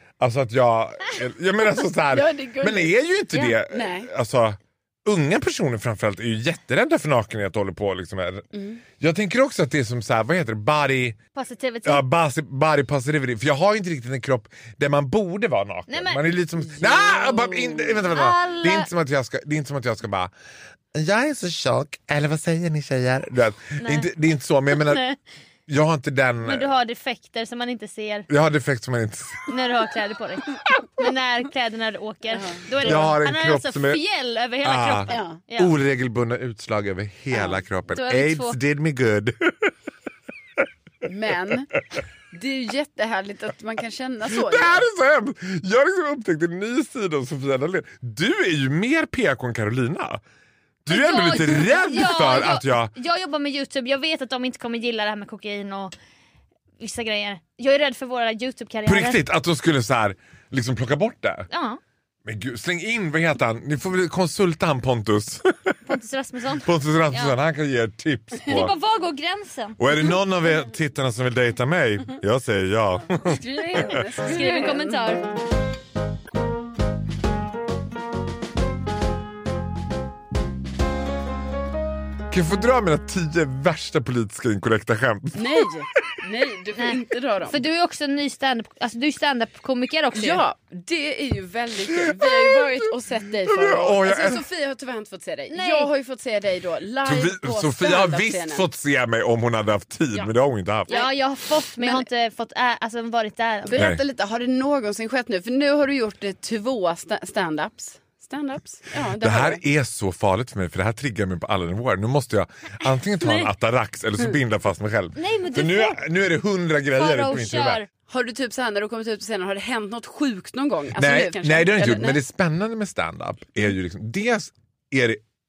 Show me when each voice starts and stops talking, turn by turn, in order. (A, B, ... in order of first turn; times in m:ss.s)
0:00.2-0:08.5 A
0:02.1-0:04.1 B
0:08.5-0:08.8 B
0:09.0-0:11.2 A
0:11.4-0:12.0 C
0:11.8-0:20.3 A
0:15.9-0:16.2 C
0:16.7-0:18.0 B
0:18.0-0:18.9 C
0:20.9-0:25.0 A
0:23.8-0:24.1 C
0:24.7-0:25.2 C
0:25.7-0:26.7 A
0:26.4-0:28.3 C
0:28.3-0:29.5 A
0:29.5-0:35.7 C
0:32.3-0:33.1 B
0:32.8-0:34.0 A
0:34.6-0:39.7 A
0:35.1-0:35.4 B
0:37.3-0:37.6 B
0:37.9-0:38.6 C
0:41.0-0:41.7 B
0:42.3-0:44.8 B
0:44.3-0:50.2 A
0:50.8-0:52.9 A
0:50.9-0:55.9 C
0:56.8-0:59.2 C
0:58.8-1:01.5 A
1:01.5-1:01.8 C
1:02.2-1:05.7 A
1:05.8-1:07.4 C
1:06.6-1:08.7 A
1:08.4-1:09.8 C
1:09.8-1:14.0 A
1:13.2-1:15.2 B
1:14.2-1:15.2 C
1:22.3-1:25.7 A
1:25.3-1:27.6 B
1:26.8-1:30.4 C
1:30.1-1:38.6 B
1:32.2-1:32.7 A
1:33.4-1:34.4 A
1:35.5-1:35.9 C
1:37.0-1:41.0 A
1:40.9-1:43.8 C
1:41.8-1:42.0 B
1:43.6-1:49.6 B
1:43.7-1:44.0 A
1:49.2-1:57.8 A
1:53.2-1:53.5 C
1:55.2-1:56.0 C
1:57.0-1:57.9 C
1:58.1-2:02.2 B
2:00.9-2:05.2 A